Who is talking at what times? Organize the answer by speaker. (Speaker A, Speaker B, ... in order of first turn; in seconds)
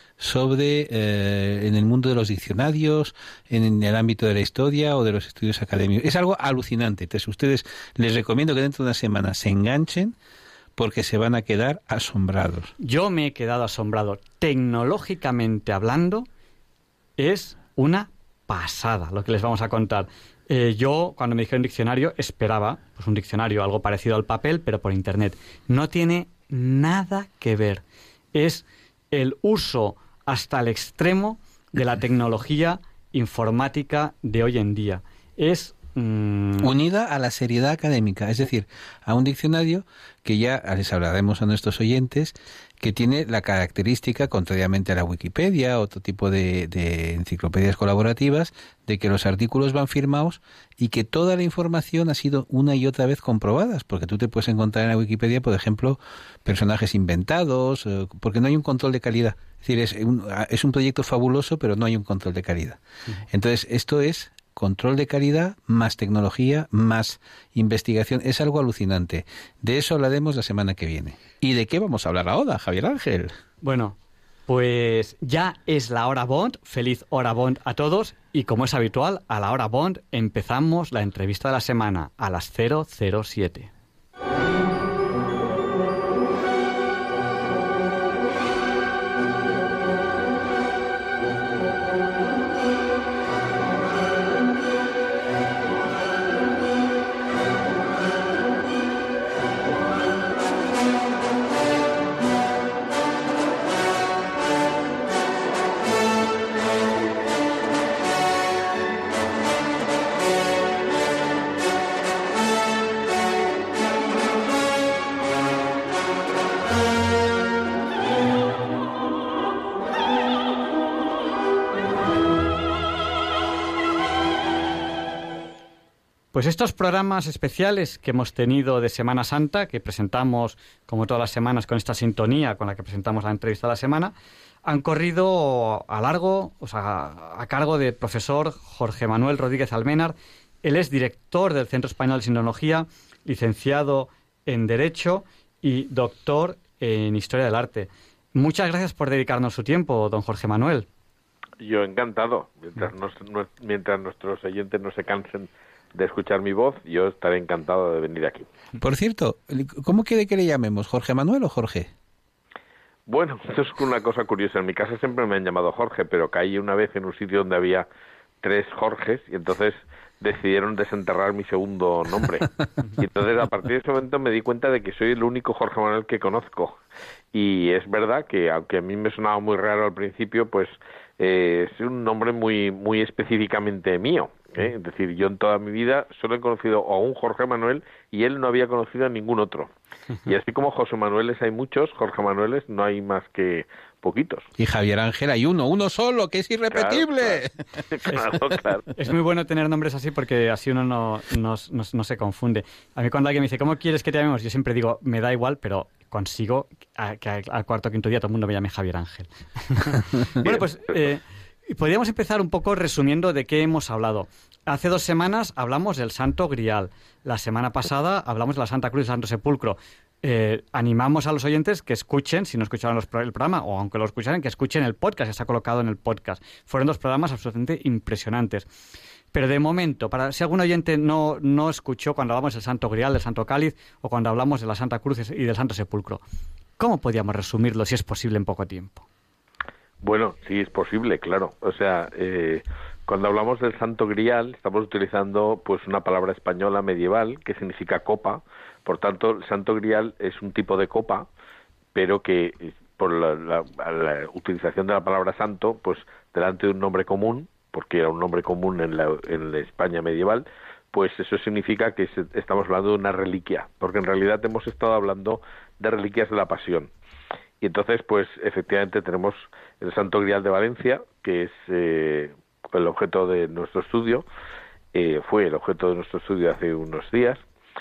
Speaker A: 0.2-10.2, 10.8-12.7, 36.6-62.8, 63.3-73.3, 158.8-161.9, 194.6-198.4
Speaker B: 12.8-16.3, 17.2-27.8, 28.3-36.7, 73.6-83.7, 126.3-134.1, 134.7-150.9, 199.0-228.7, 229.3-236.2, 236.8-239.1
Speaker C: 151.6-158.5, 163.1-167.9, 168.4-176.8, 177.3-189.7, 190.3-194.5, 196.7-198.8, 240.0-251.3, 251.9-266.9, 267.6-274.2, 274.9-277.4